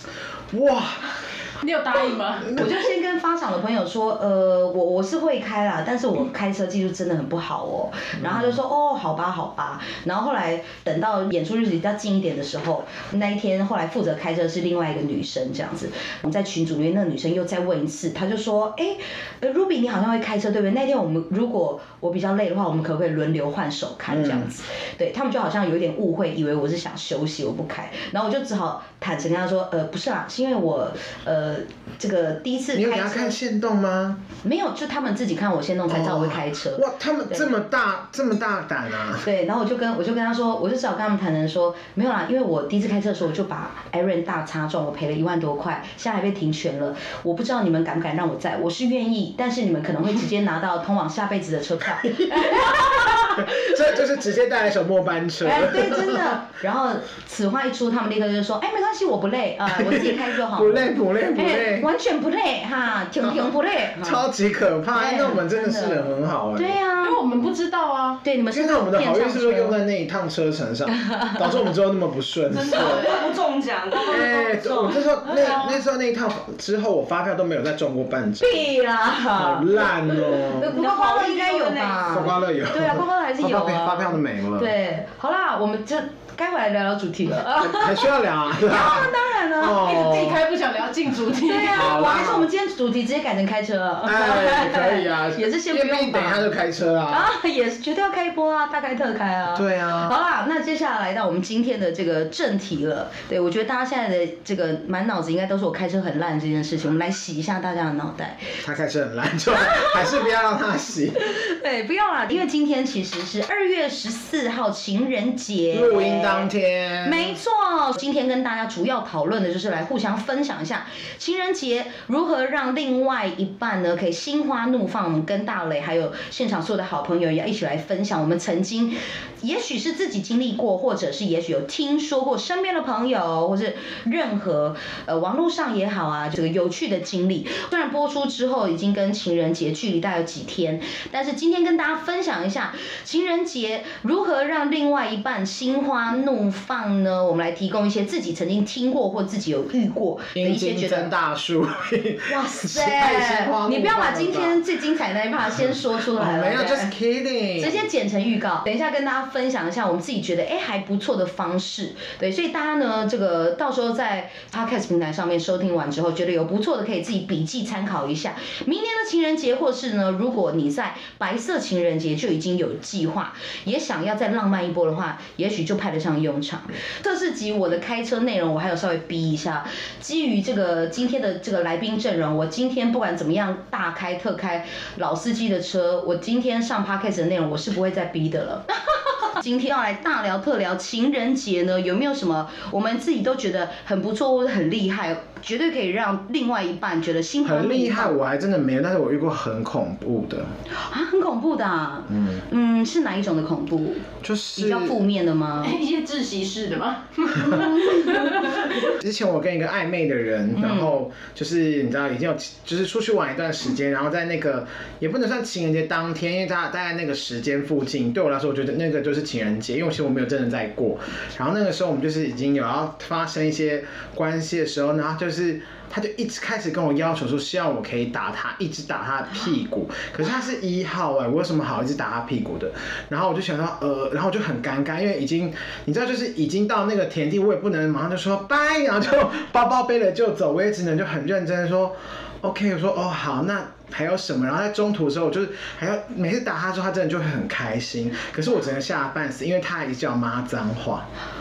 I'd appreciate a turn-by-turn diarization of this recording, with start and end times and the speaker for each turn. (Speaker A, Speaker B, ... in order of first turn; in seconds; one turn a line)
Speaker A: 0.5-1.1
Speaker B: 1.6-2.6
Speaker A: 2.5-2.7
Speaker C: 2.5-33.4
Speaker A: 8.2-8.6
Speaker A: 24.1-24.5
Speaker A: 32.7-34.2
Speaker C: 34.4-37.5
Speaker A: 35.9-39.3
Speaker C: 39.2-53.8
Speaker A: 52.1-56.4
Speaker C: 55.4-64.2
Speaker A: 59.7-61.9
Speaker A: 63.2-66.8
Speaker C: 64.9-67.2
Speaker B: 67.0-68.2
Speaker C: 68.2-69.8
Speaker A: 68.5-73.2
Speaker C: 71.0-71.4
Speaker B: 72.6-73.3
Speaker D: 72.6-75.6
Speaker A: 74.1-78.6
Speaker B: 75.3-75.8
Speaker C: 78.4-89.9
Speaker A: 79.3-80.8
Speaker D: 80.7-82.3
Speaker A: 82.1-84.7
Speaker A: 87.6-90.4
Speaker B: 89.7-91.8
Speaker C: 91.4-96.5
Speaker A: 91.7-92.5
Speaker A: 94.0-97.3
Speaker C: 97.1-108.5
Speaker A: 99.5-100.1
Speaker A: 108.6-111.2
Speaker C: 109.6-110.1
Speaker C: 111.2-116.5
Speaker A: 115.7-117.3
Speaker C: 117.0-151.1
Speaker A: 150.3-154.6
Speaker C: 152.3-156.9
Speaker A: 155.6-157.8
Speaker C: 157.6-198.2
Speaker A: 197.4-200.5
Speaker C: 200.8-205.8
Speaker A: 202.1-202.4
Speaker A: 204.2-205.0
Speaker B: 205.6-208.7
Speaker C: 207.4-208.4
Speaker A: 208.8-251.1
Speaker C: 210.6-211.0